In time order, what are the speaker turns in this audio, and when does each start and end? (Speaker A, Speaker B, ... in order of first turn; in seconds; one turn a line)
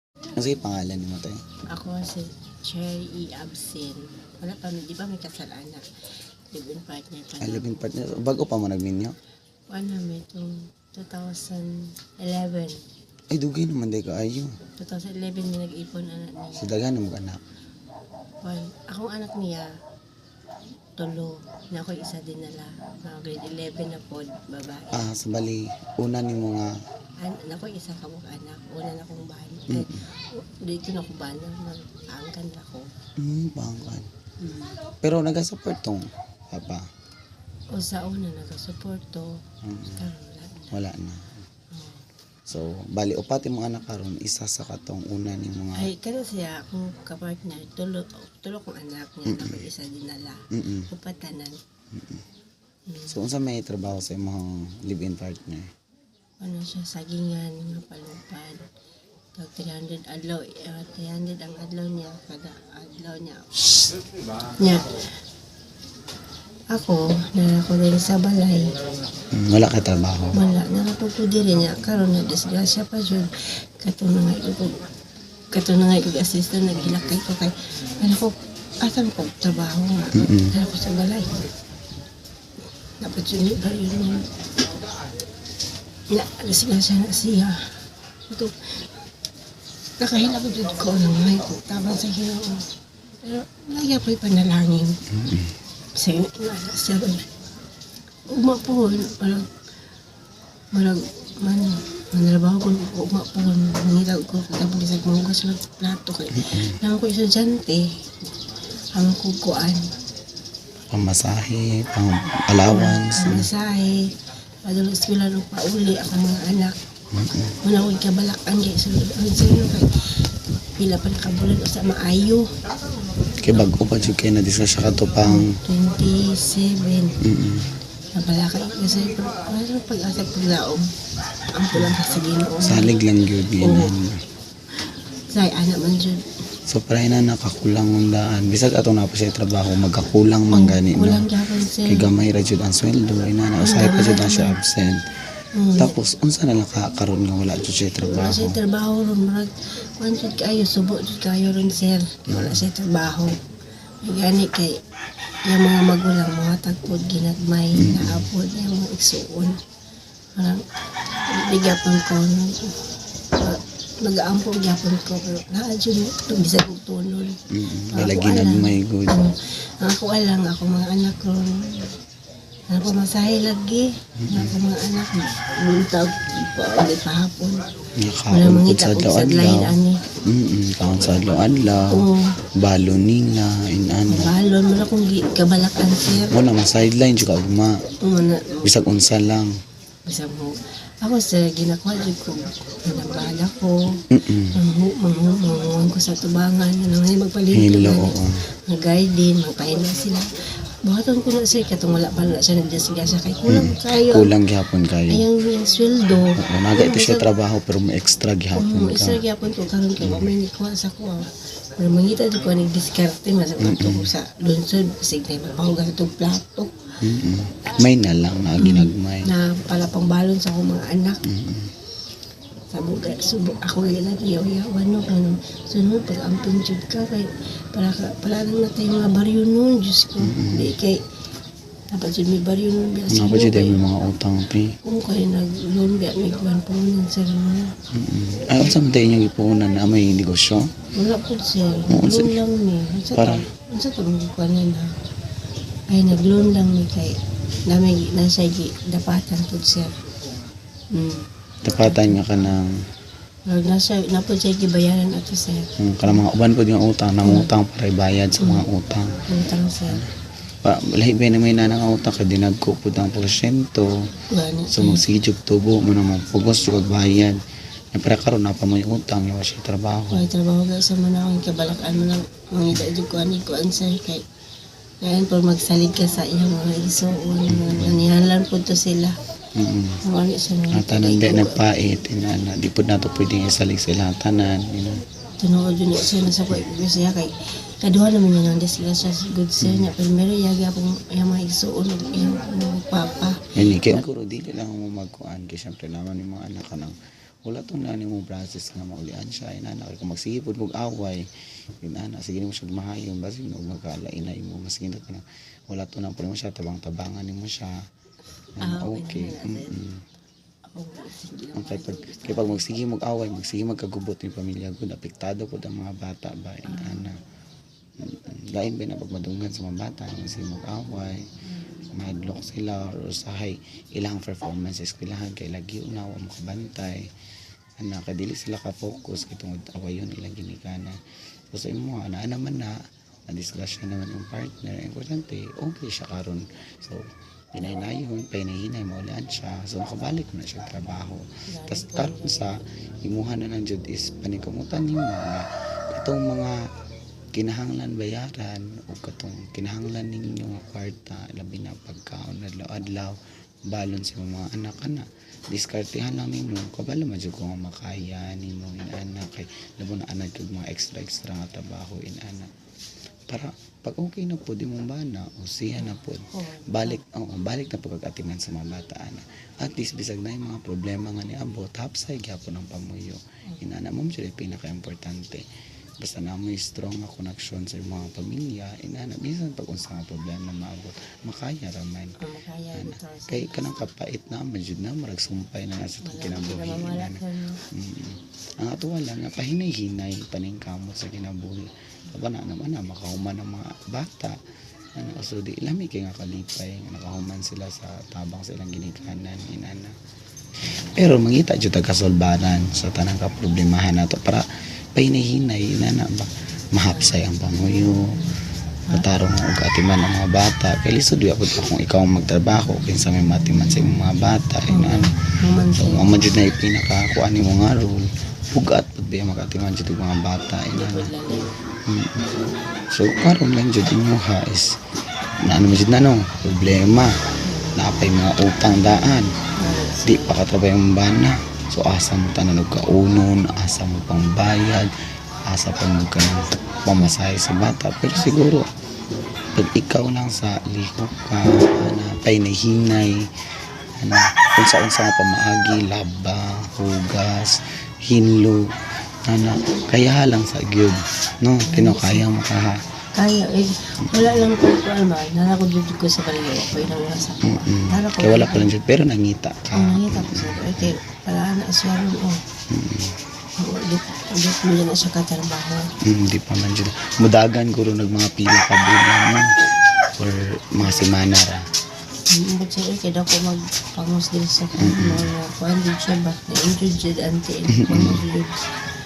Speaker A: 0.4-1.4
Speaker B: 1.7-5.8
Speaker B: 6.5-7.8
Speaker A: 7.4-9.1
Speaker B: 9.7-12.8
Speaker A: 13.3-14.6
Speaker B: 14.8-16.6
Speaker A: 16.5-17.4
Speaker B: 18.4-19.7
Speaker B: 21.0-25.0
Speaker A: 24.9-26.7
Speaker B: 27.2-32.9
Speaker A: 33.2-34.1
Speaker B: 34.4-34.8
Speaker A: 35.0-36.8
Speaker B: 37.7-39.3
Speaker A: 39.6-40.0
Speaker B: 40.0-40.7
Speaker A: 40.7-41.4
Speaker B: 41.7-42.0
Speaker A: 42.5-45.9
Speaker B: 45.8-51.6
Speaker A: 49.2-49.6
Speaker A: 50.5-50.9
Speaker A: 51.9-52.2
Speaker A: 53.1-55.7
Speaker B: 56.4-58.6
Speaker B: 59.4-63.5
Speaker B: 64.6-64.9
Speaker B: 66.7-68.7
Speaker A: 69.3-70.3
Speaker B: 70.3-74.7
Speaker B: 75.5-81.4
Speaker A: 80.1-80.5
Speaker B: 83.0-84.2
Speaker B: 86.1-87.5
Speaker B: 88.3-88.6
Speaker B: 90.0-92.7
Speaker B: 93.2-95.0
Speaker A: 95.1-95.5
Speaker B: 95.9-97.2
Speaker B: 98.3-99.5
Speaker B: 100.7-107.8
Speaker A: 106.3-106.7
Speaker B: 109.0-109.9
Speaker A: 110.9-113.5
Speaker B: 112.7-114.1
Speaker B: 114.6-116.7
Speaker A: 117.1-117.5
Speaker B: 117.6-119.9
Speaker B: 120.8-122.4
Speaker A: 123.4-125.6
Speaker B: 125.3-127.2
Speaker A: 127.2-127.7
Speaker B: 128.2-130.8
Speaker B: 131.5-132.9
Speaker A: 132.6-134.2
Speaker B: 133.6-133.9
Speaker B: 135.3-136.2
Speaker A: 136.7-141.2
Speaker B: 140.5-142.1
Speaker A: 141.8-145.0
Speaker B: 143.6-144.6
Speaker B: 145.6-145.9
Speaker A: 145.8-148.6
Speaker B: 148.0-153.3
Speaker A: 152.3-152.6
Speaker B: 154.0-154.8
Speaker B: 155.5-159.6
Speaker A: 157.8-158.3
Speaker B: 160.3-160.6
Speaker B: 161.3-162.7
Speaker B: 163.4-167.4
Speaker A: 167.5-169.2
Speaker B: 167.9-171.6
Speaker B: 172.7-177.6
Speaker A: 174.2-174.5
Speaker A: 178.0-179.7
Speaker B: 178.3-180.0
Speaker A: 180.3-182.0
Speaker B: 181.9-182.3
Speaker A: 182.6-184.3
Speaker B: 184.1-186.3
Speaker A: 186.2-187.8
Speaker B: 188.0-188.7
Speaker A: 188.6-189.5
Speaker B: 190.1-193.7
Speaker A: 194.1-194.6
Speaker B: 194.5-200.2
Speaker A: 197.5-198.4
Speaker B: 200.8-204.3
Speaker A: 203.5-205.2
Speaker B: 205.1-207.2
Speaker A: 206.4-209.2
Speaker B: 208.6-216.7
Speaker A: 210.0-210.3
Speaker A: 213.6-214.1
Speaker A: 217.0-219.3
Speaker B: 218.6-221.2
Speaker A: 221.2-221.7
Speaker B: 222.7-231.0
Speaker A: 230.2-230.7
Speaker B: 231.9-233.8
Speaker A: 233.1-234.8
Speaker B: 234.8-237.7
Speaker A: 237.9-240.7
Speaker B: 240.9-244.9
Speaker A: 241.9-242.3
Speaker A: 243.1-243.4
Speaker B: 245.9-247.1
Speaker B: 247.7-249.9
Speaker B: 250.9-251.2
Speaker A: 251.6-252.7
Speaker B: 251.8-252.2
Speaker B: 253.5-256.2
Speaker A: 255.8-259.2
Speaker B: 257.2-257.5
Speaker B: 258.4-258.6
Speaker B: 259.3-260.0
Speaker A: 260.6-263.9
Speaker B: 264.3-265.0
Speaker A: 264.7-267.4
Speaker A: 267.9-270.2
Speaker B: 270.1-274.2
Speaker B: 275.0-279.1
Speaker A: 277.5-278.0
Speaker A: 279.6-280.0
Speaker B: 280.0-281.6
Speaker A: 280.7-285.0
Speaker B: 285.4-293.3
Speaker A: 289.6-289.9
Speaker A: 293.5-296.9
Speaker A: 297.4-301.2
Speaker A: 301.8-307.7
Speaker B: 308.6-309.7
Speaker A: 308.6-310.0
Speaker B: 310.7-312.6
Speaker A: 311.6-317.1
Speaker B: 316.7-317.1
Speaker A: 318.0-321.2
Speaker B: 321.4-321.9
Speaker A: 321.9-327.0
Speaker A: 327.8-330.9
Speaker A: 331.5-332.7
Speaker A: 333.3-346.6
Speaker B: 341.5-342.6
Speaker A: 347.3-353.1
Speaker A: 353.7-362.5
Speaker A: 363.3-375.4
Speaker B: 365.8-367.0
Speaker A: 376.0-382.1
Speaker B: 382.2-383.6
Speaker A: 382.7-387.2
Speaker B: 386.0-387.6
Speaker A: 387.7-394.4
Speaker A: 394.9-399.9
Speaker A: 400.9-404.4
Speaker A: 404.9-408.1
Speaker B: 406.9-407.2
Speaker A: 408.9-415.1
Speaker B: 414.7-416.4
Speaker A: 415.7-421.1
Speaker B: 420.7-421.5
Speaker A: 421.9-422.2
Speaker A: 422.9-424.7
Speaker A: 425.4-427.1
Speaker B: 427.4-427.8
Speaker A: 427.8-429.3
Speaker B: 429.6-430.4
Speaker A: 430.0-434.9
Speaker A: 435.5-438.7
Speaker A: 439.5-443.2
Speaker A: 444.0-448.6
Speaker A: 449.3-452.8
Speaker B: 451.6-452.2
Speaker B: 453.1-458.7
Speaker A: 454.0-454.4
Speaker A: 457.4-460.9
Speaker B: 459.7-462.4
Speaker A: 462.7-463.1
Speaker B: 463.6-465.9
Speaker A: 466.1-469.5
Speaker A: 470.1-471.6
Speaker B: 470.8-471.1
Speaker B: 472.3-478.6
Speaker A: 474.8-475.3
Speaker A: 477.8-478.2